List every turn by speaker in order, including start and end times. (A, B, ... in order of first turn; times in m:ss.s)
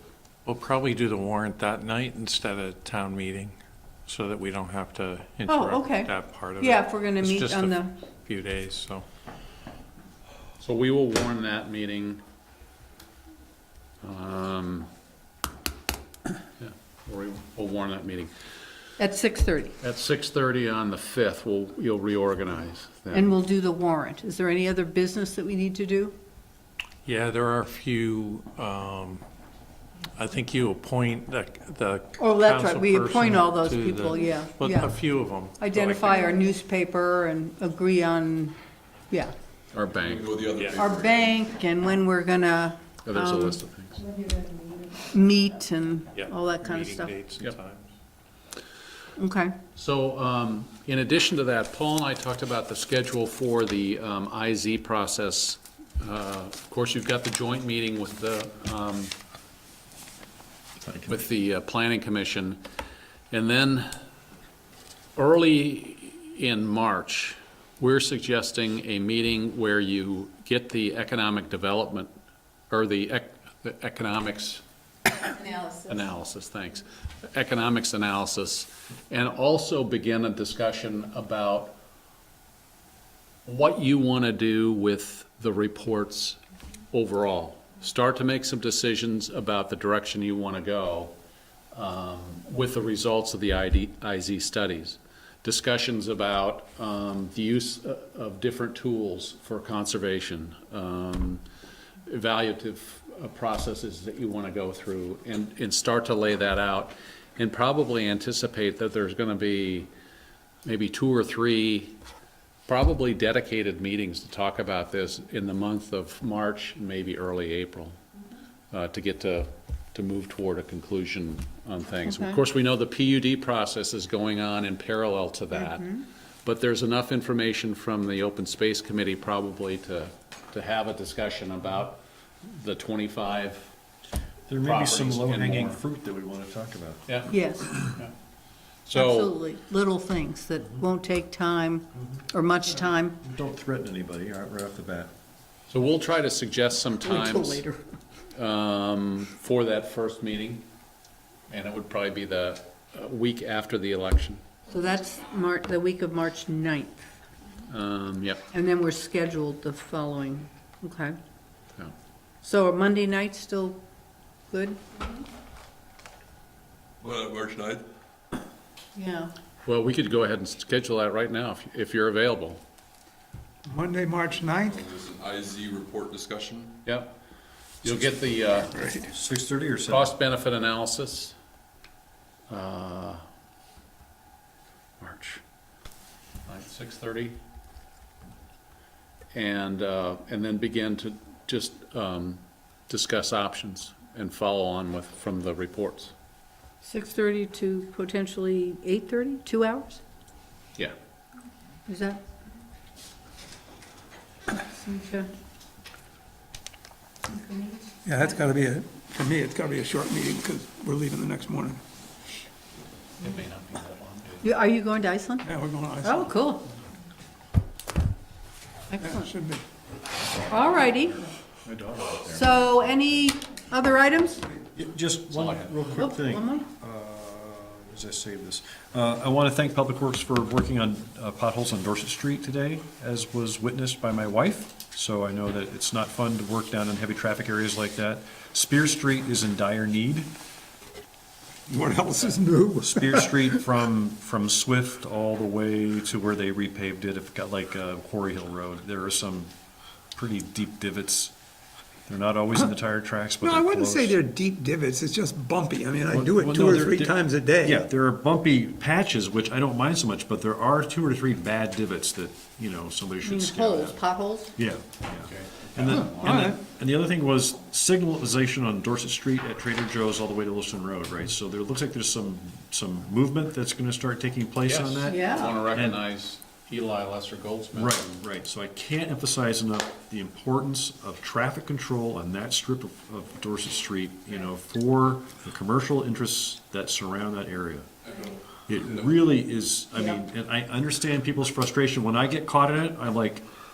0:00.5-0:09.0 A
0:05.5-0:08.0 B
0:10.6-0:12.2 C
0:14.0-0:14.9 C
0:16.6-0:18.3 C
0:19.0-0:19.7 B
0:19.8-0:23.4 C
0:23.1-0:26.2 B
0:27.0-0:29.2 A
0:30.2-0:36.3 A
0:32.2-0:38.6 B
0:39.7-0:40.4 C
0:40.0-0:41.4 D
0:40.5-0:40.9 A
0:40.8-0:43.6 B
0:43.1-0:44.0 C
0:44.2-0:47.2 B
0:46.1-0:47.9 A
0:49.2-0:49.6 B
0:49.8-0:59.1 C
1:00.8-1:01.2 E
1:01.1-1:02.6 C
1:03.3-1:03.9 C
1:05.2-1:12.1 C
1:12.7-1:14.6 C
1:15.4-1:16.1 B
1:15.9-1:21.8 C
1:23.5-1:26.4 C
1:26.9-1:31.2 C
1:31.7-1:41.4 C
1:42.1-1:49.9 C
1:50.6-1:52.0 C
1:52.7-1:58.0 C
1:58.7-2:05.9 C
2:02.1-2:02.4 B
2:05.5-2:06.0 B
2:06.4-2:13.7 C
2:14.5-2:17.0 E
2:14.6-2:15.8 C
2:17.1-2:18.1 C
2:17.3-2:17.8 B
2:18.9-2:19.4 C
2:18.9-2:23.2 B
2:23.2-2:25.1 E
2:25.7-2:27.6 C
2:27.1-2:27.6 B
2:28.4-2:30.6 C
2:31.5-2:34.4 C
2:34.7-2:37.0 B
2:37.7-2:38.4 C
2:38.5-2:41.2 B
2:42.4-2:43.8 B
2:44.5-2:45.0 B
2:47.0-2:47.8 D
2:49.0-2:49.3 B
2:49.6-2:52.6 C
2:53.7-2:54.8 F
2:54.3-2:56.8 D
2:56.9-2:57.2 C
2:57.8-2:58.8 C
2:58.7-2:59.1 F
2:59.0-3:00.2 E
2:59.9-3:01.4 C
3:02.5-3:03.2 C
3:05.0-3:05.4 C
3:06.5-3:07.4 C
3:09.4-3:16.1 C
3:16.8-3:20.0 B
3:21.9-3:22.2 B
3:24.5-3:25.3 B
3:27.3-3:28.3 B
3:28.0-3:31.8 F
3:33.2-3:34.5 C
3:34.4-3:35.5 B
3:35.4-3:36.4 F
3:36.0-3:36.6 B
3:38.9-3:39.2 B
3:39.0-3:39.6 F
3:40.4-3:41.2 B
3:41.7-3:42.4 C
3:42.3-3:44.5 B
3:44.8-4:00.3 E
3:45.9-3:46.7 B
4:01.7-4:03.3 F
4:02.9-4:09.5 E
4:10.1-4:11.3 E
4:12.1-4:14.2 E
4:13.4-4:17.9 F
4:16.1-4:24.0 E
4:23.2-4:24.6 B
4:24.6-4:36.0 E
4:25.1-4:26.5 C
4:26.1-4:26.6 F
4:34.7-4:38.2 C
4:35.1-4:35.6 B
4:37.7-4:47.9 E
4:48.1-4:49.1 D
4:48.7-4:53.4 E
4:50.0-4:50.2 B